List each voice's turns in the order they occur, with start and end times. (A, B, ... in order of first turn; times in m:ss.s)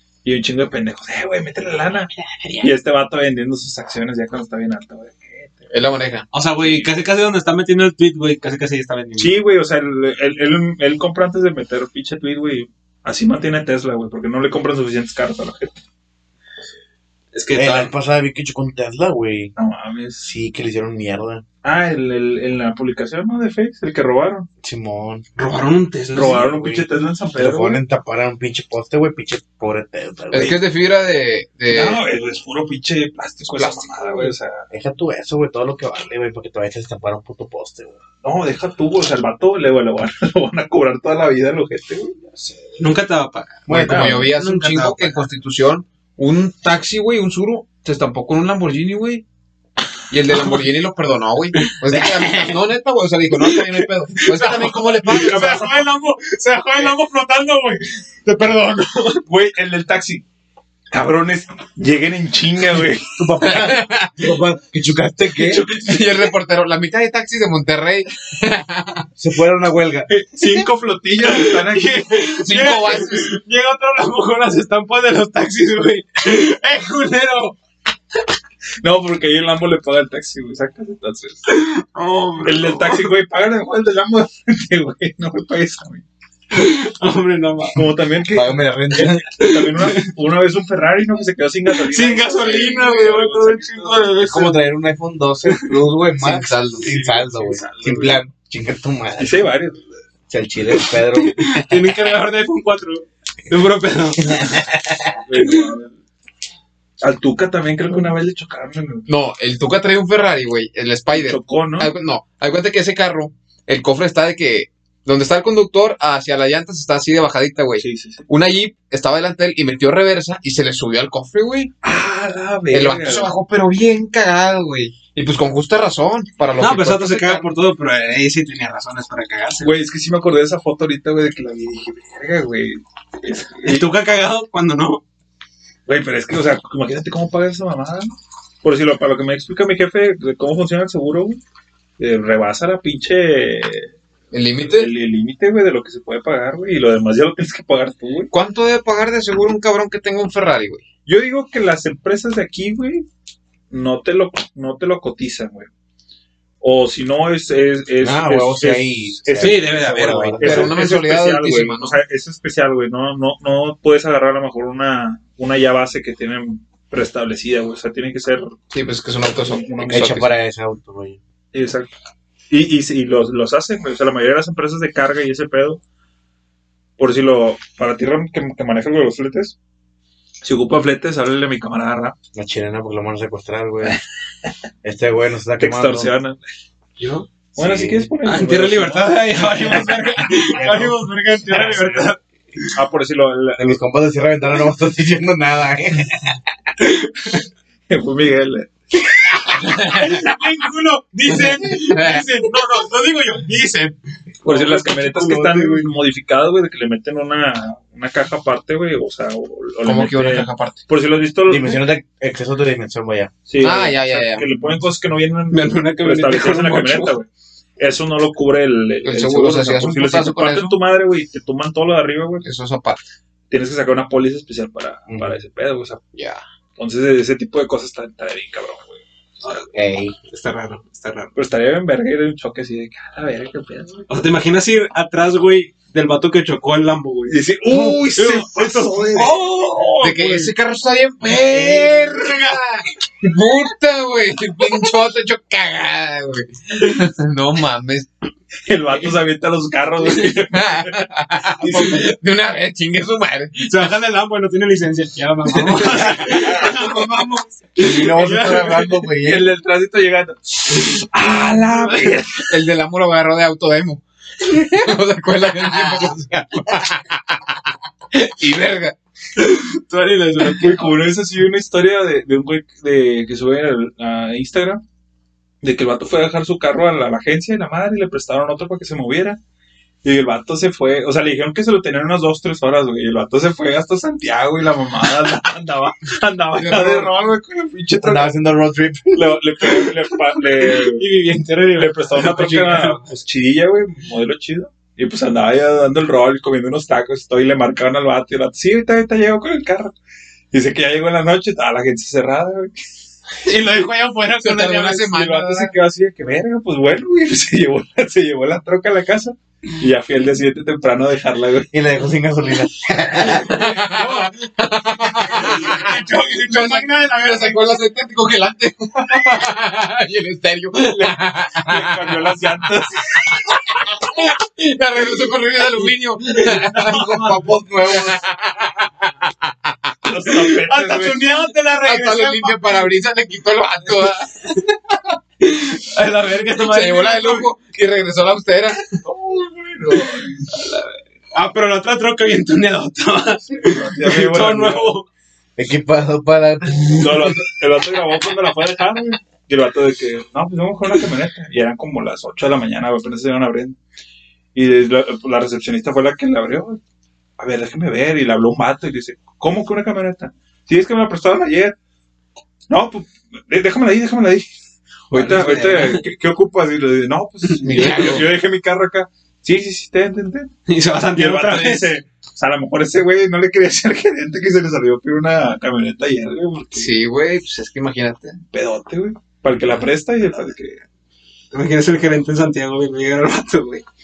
0:00.2-0:05.7 A
0:02.2-0:02.7 B
0:05.7-0:06.3 C
0:06.3-0:09.4 B
0:06.6-0:06.9 A
0:09.2-0:15.8 A
0:17.3-0:17.9 B
0:17.5-0:19.5 D
0:19.6-0:20.3 A
0:20.2-0:21.4 D
0:21.6-0:24.5 A
0:24.6-0:25.2 D
0:25.4-0:26.6 B
0:26.1-0:27.8 A
0:26.5-0:26.8 D
0:27.4-0:30.6 D
0:30.3-0:32.0 C
0:31.7-0:34.7 A
0:33.6-0:34.3 C
0:34.7-0:38.0 D
0:38.2-0:42.4 A
0:42.8-0:45.3 B
0:43.7-0:44.2 D
0:43.7-0:49.2 C
0:50.1-0:55.8 C
0:50.3-0:50.6 B
0:51.6-0:52.6 B
0:53.3-0:59.2 B
0:55.2-0:55.7 A
0:59.3-1:00.2 A
1:00.9-1:03.5 A
1:03.2-1:05.6 D
1:03.4-1:04.2 C
1:05.5-1:06.3 B
1:05.7-1:09.1 C
1:09.2-1:10.1 D
1:10.1-1:10.6 B
1:10.3-1:12.1 A
1:11.2-1:17.6 B
1:12.4-1:13.3 C
1:18.8-1:21.5 A
1:21.5-1:23.1 B
1:22.4-1:26.0 A
1:26.5-1:27.9 B
1:27.8-1:34.1 A
1:28.3-1:29.3 D
1:29.4-1:30.1 B
1:31.8-1:34.6 B
1:34.2-1:39.4 D
1:36.2-1:36.9 C
1:36.8-1:38.2 A
1:39.2-1:40.0 A
1:40.3-1:41.8 D
1:41.1-1:44.7 B
1:45.2-1:45.9 A
1:45.4-1:45.7 B
1:47.0-1:49.1 A
1:49.1-2:01.7 C
1:51.1-1:51.9 A
1:57.8-1:58.3 A
2:01.8-2:03.3 A
2:02.7-2:07.5 C
2:06.6-2:09.7 B
2:09.6-2:13.9 A
2:13.6-2:15.0 B
2:15.9-2:21.4 A
2:22.0-2:23.9 A
2:24.3-2:24.9 C
2:24.7-2:28.3 A
2:28.3-2:30.8 C
2:31.1-2:33.0 A
2:33.7-2:35.7 A
2:36.6-2:48.6 A
2:38.0-2:40.8 D
2:39.4-2:40.6 B
2:40.4-2:42.0 C
2:48.7-2:50.3 C
2:49.8-2:51.2 D
2:51.5-2:51.9 A
2:52.5-2:55.8 A
2:57.0-2:59.6 A
3:00.4-3:02.2 A
3:02.4-3:04.0 D
3:04.8-3:06.1 D
3:05.6-3:06.4 A
3:07.0-3:07.3 B
3:07.6-3:08.1 D
3:07.6-3:10.5 A
3:08.2-3:12.7 B
3:10.5-3:11.1 D
3:11.6-3:12.1 A
3:12.7-3:13.8 A
3:13.6-3:16.4 D
3:16.8-3:17.3 B
3:17.9-3:18.7 A
3:19.5-3:25.9 B
3:19.6-3:20.2 C
3:21.3-3:22.2 C
3:24.4-3:31.8 A
3:29.8-3:30.8 C
3:31.5-3:33.3 D
3:33.5-3:37.3 A
3:33.6-3:34.5 C
3:35.5-3:37.2 B
3:37.8-3:42.5 A
3:39.0-3:40.8 C
3:42.4-3:43.0 C
3:43.5-3:46.0 A
3:45.1-3:45.3 D
3:46.2-3:46.4 C
3:46.8-3:49.0 A
3:49.4-3:49.7 B
3:49.7-3:50.2 D
3:50.3-3:51.3 B
3:51.4-3:54.0 A
3:54.1-4:00.5 B
3:57.3-3:59.9 A
3:59.0-3:59.3 D
4:00.0-4:08.1 C
4:01.6-4:01.9 D
4:08.7-4:11.1 A
4:10.5-4:13.9 C
4:11.6-4:12.1 B
4:13.7-4:19.1 B
4:16.0-4:16.5 A
4:17.8-4:19.5 D
4:19.2-4:22.5 A
4:21.6-4:22.2 B
4:22.5-4:29.0 C
4:29.4-4:30.9 B
4:30.4-4:34.8 A
4:35.6-4:39.4 A
4:40.0-4:48.3 A
4:46.6-4:47.2 C
4:48.0-4:49.4 D
4:49.1-4:51.0 A
4:50.6-4:53.1 B
4:51.8-4:59.9 A
5:00.5-5:02.7 A
5:03.4-5:05.1 B
5:04.4-5:05.7 C
5:05.1-5:11.7 A
5:11.7-5:13.6 D
5:13.3-5:22.4 C
5:13.8-5:14.3 A
5:15.3-5:17.8 B
5:21.6-5:23.4 A
5:23.3-5:29.9 C
5:26.4-5:27.5 B
5:26.8-5:28.2 D
5:30.0-5:31.2 A
5:30.3-5:32.9 B
5:31.8-5:34.6 C
5:35.4-5:37.5 B
5:36.6-5:38.8 C
5:39.0-5:40.5 A
5:40.5-5:45.1 B
5:43.6-5:44.9 A
5:45.6-5:47.4 D
5:47.0-5:53.8 A
5:54.5-5:56.8 A
5:57.4-6:01.8 A
6:02.7-6:04.5 A
6:05.1-6:06.0 B
6:05.1-6:10.5 A
6:07.6-6:08.2 B
6:07.6-6:08.3 C
6:10.7-6:12.0 B
6:11.2-6:17.0 A
6:16.7-6:18.4 C
6:18.5-6:20.8 A
6:21.5-6:23.8 B